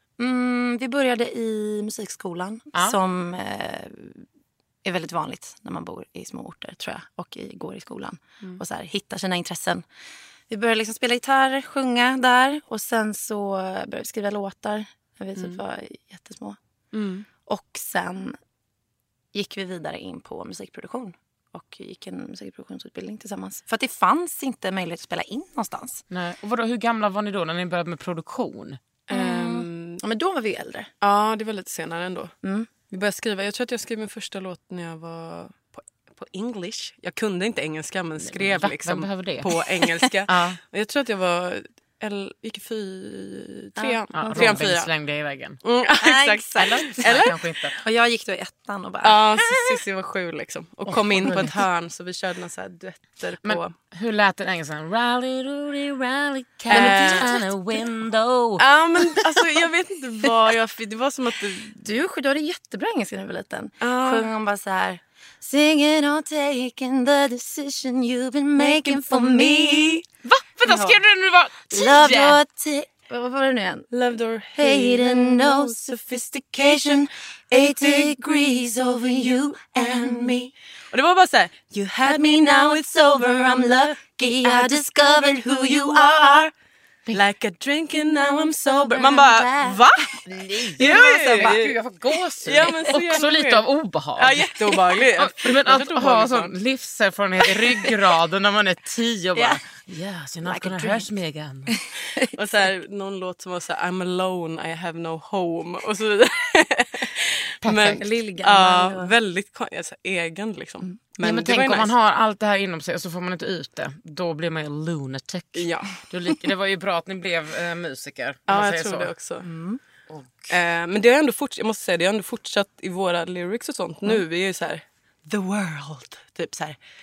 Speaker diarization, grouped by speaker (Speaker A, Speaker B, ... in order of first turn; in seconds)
Speaker A: 0.2-4.3, 4.8-9.8, 10.5-16.6, 17.4-18.4, 19.3-26.0, 29.1-30.9, 32.4-32.7, 43.8-44.5, 46.0-49.8, 56.7-57.5, 61.8-70.0, 70.6-71.0, 71.7-73.9, 74.5-80.5, 82.0-86.5, 88.3-90.0, 90.7-91.7, 99.4-99.6, 100.5-101.1, 101.7-102.7, 107.9-109.1, 119.4-119.8
Speaker B: 16.9-17.3, 29.1-30.0, 31.0-32.3, 32.9-44.9, 45.6-47.4, 49.0-53.7, 56.7-57.3, 58.6-61.8, 63.8-64.3, 68.6-70.0, 73.9-75.9, 77.5-78.2, 79.9-82.8, 84.4-84.8, 86.0-86.4, 87.1-90.2, 90.8-91.8, 92.4-93.7, 94.2-96.5, 102.3-111.9, 115.6-115.9, 118.5-119.5, 120.5-126.8
Speaker C: 26.1-28.8, 38.2-39.5, 40.3-40.6, 44.1-45.6, 46.6-47.8, 50.9-51.6, 53.4-58.6, 70.2-72.4, 90.3-94.5, 95.2-101.8, 107.6-108.0, 111.2-119.1, 120.1-120.5